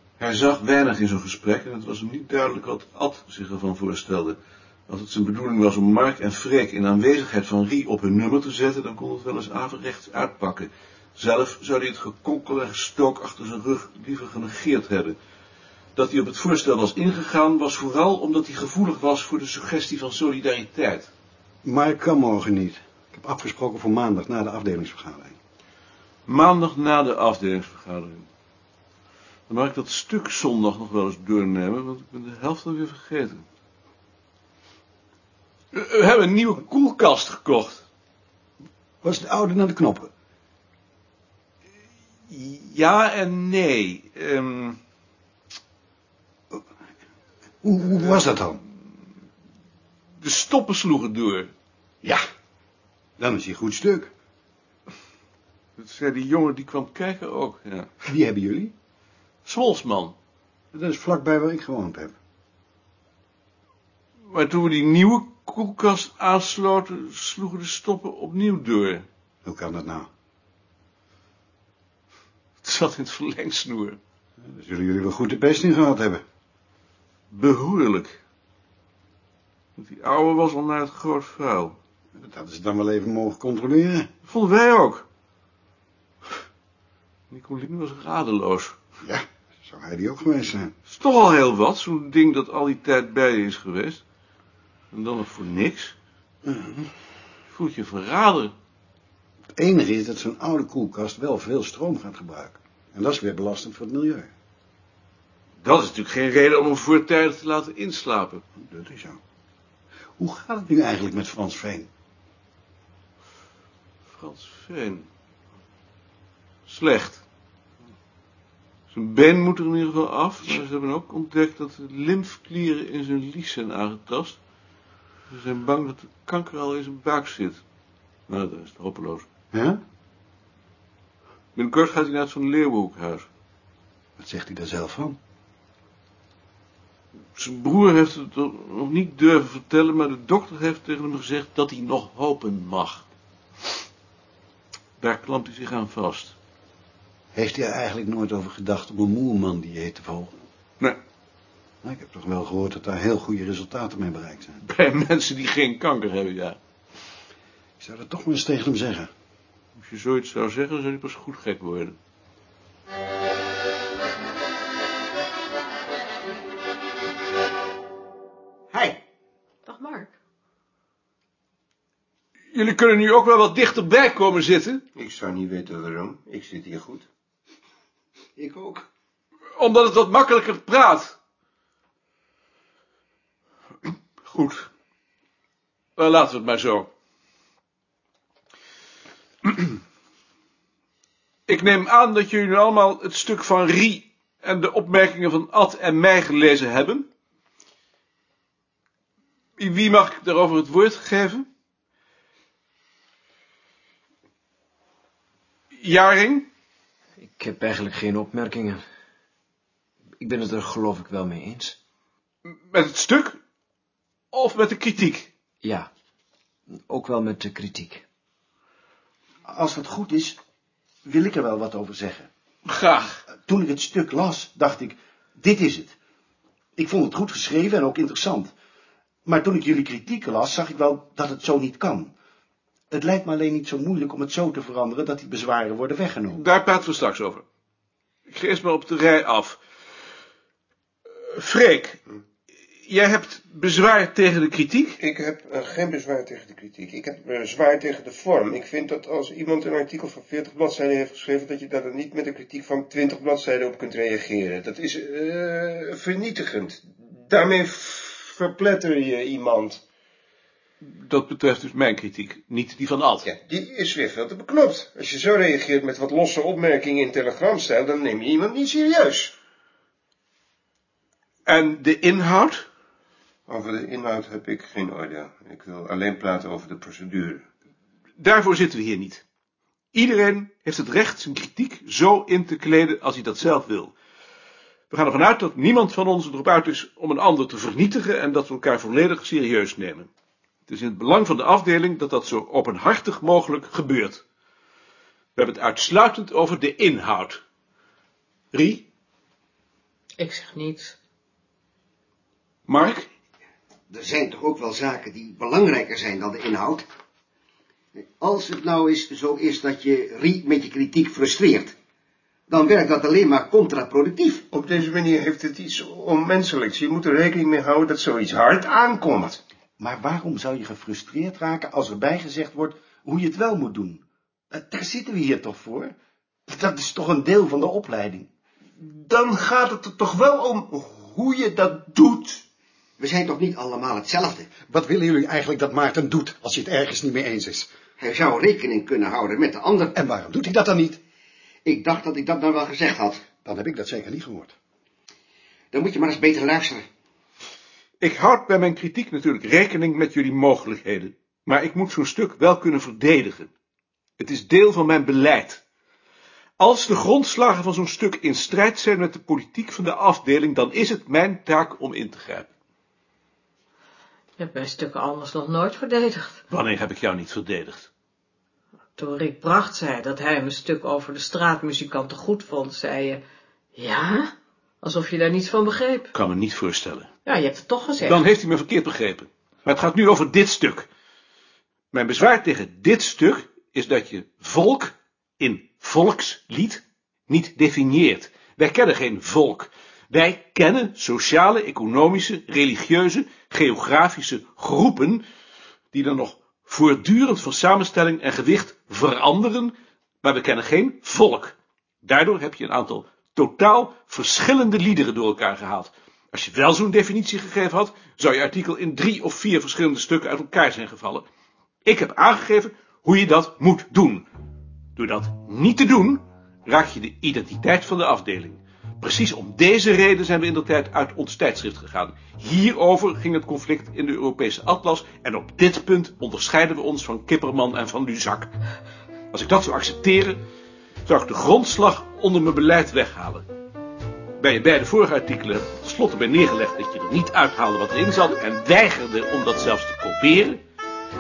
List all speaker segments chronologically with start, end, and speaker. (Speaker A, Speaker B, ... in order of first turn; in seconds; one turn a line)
Speaker A: 0.2-15.2
Speaker A: 16.0-21.1
Speaker B: 21.6-25.4
Speaker A: 26.3-28.3
Speaker A: 29.5-33.4
Speaker A: 35.7-37.9
Speaker B: 39.0-40.1
Speaker A: 42.3-44.8
Speaker B: 47.6-48.6
Speaker A: 50.2-51.5
Speaker B: 53.2-54.1
Speaker A: 55.8-57.9
Speaker B: 58.0-58.7
Speaker A: 59.5-60.1
Speaker B: 60.7-62.2
Speaker A: 64.3-69.1
Speaker B: 69.5-70.1
Speaker A: 72.6-74.0
Speaker B: 74.4-76.2
Speaker A: 77.3-78.2
Speaker A: 79.8-81.8
Speaker B: 82.2-84.1
Speaker A: 84.3-85.0
Speaker A: 87.3-88.8
Speaker B: 89.0-90.7
Speaker A: 90.9-94.0
Speaker A: 94.9-96.0
Speaker B: 96.5-96.8
Speaker A: 97.5-98.5
Speaker B: 99.6-104.3
Speaker A: 105.6-108.4
Speaker B: 108.6-109.2
Speaker B: 110.2-111.9
Speaker A: 114.1-115.1
Speaker A: 116.7-117.2
Speaker A: 118.9-124.4
Speaker A: 125.3-127.6
Speaker A: 128.3-129.3
Speaker B: 129.5-129.8
Speaker A: 131.6-133.3
Speaker B: 134.2-135.2
Speaker A: 137.4-143.1
Speaker A: 145.0-146.4
Speaker B: 147.3-150.4
Speaker B: 151.8-154.6
Speaker A: 154.6-156.6
Speaker B: 157.8-159.1
Speaker A: 159.8-162.0
Speaker C: 168.7-169.0
Speaker D: 169.7-170.1
Speaker A: 172.5-174.8
Speaker E: 175.0-177.1
Speaker C: 178.4-178.9
Speaker A: 179.6-181.2
Speaker A: 184.2-184.7
Speaker A: 186.0-186.9
Speaker A: 191.5-197.1
Speaker A: 199.6-201.5
Speaker A: 205.8-206.5
Speaker F: 207.2-208.8
Speaker F: 210.2-211.8
Speaker A: 212.5-213.4
Speaker A: 214.3-215.3
Speaker F: 216.8-218.0
Speaker G: 219.5-220.4
Speaker G: 221.1-222.3
Speaker A: 222.7-223.2
Speaker G: 223.5-226.0
Speaker G: 226.8-228.5
Speaker G: 229.3-232.1
Speaker G: 232.9-236.4
Speaker A: 236.3-237.4
Speaker A: 238.3-239.6
Speaker A: 241.3-242.0
Speaker A: 242.9-245.0
Speaker E: 245.0-259.8
Speaker A: 260.8-263.3
Speaker E: 263.3-269.3
Speaker A: 271.5-272.7
Speaker E: 273.5-277.4
Speaker A: 278.2-279.2
Speaker A: 279.9-283.9
Speaker A: 284.9-290.1
Speaker A: 290.7-294.2
Speaker A: 295.4-297.4
Speaker A: 298.5-298.9
Speaker D: 300.2-301.0
Speaker A: 302.7-303.1
Speaker C: 303.9-306.9
Speaker C: 308.0-311.8
Speaker C: 312.5-314.5
Speaker E: 314.5-319.4
Speaker G: 319.8-325.9
Speaker G: 326.5-328.3
Speaker E: 328.8-332.4
Speaker C: 333.0-334.6
Speaker B: 334.6-337.7
Speaker C: 338.0-340.0
Speaker B: 339.9-341.0
Speaker C: 341.6-343.3
Speaker B: 343.4-344.5
Speaker C: 345.7-346.9
Speaker A: 348.0-353.5
Speaker A: 354.2-355.6
Speaker A: 356.6-362.5
Speaker D: 364.4-366.4
Speaker A: 366.5-367.9
Speaker D: 369.0-373.2
Speaker D: 373.8-376.1
Speaker A: 376.1-377.1
Speaker D: 377.3-378.2
Speaker A: 378.0-380.9
Speaker A: 381.9-395.2
Speaker A: 395.9-411.2
Speaker A: 411.9-414.3
Speaker A: 415.0-428.5
Speaker A: 429.3-430.4
Speaker A: 431.1-433.4
Speaker A: 434.4-440.6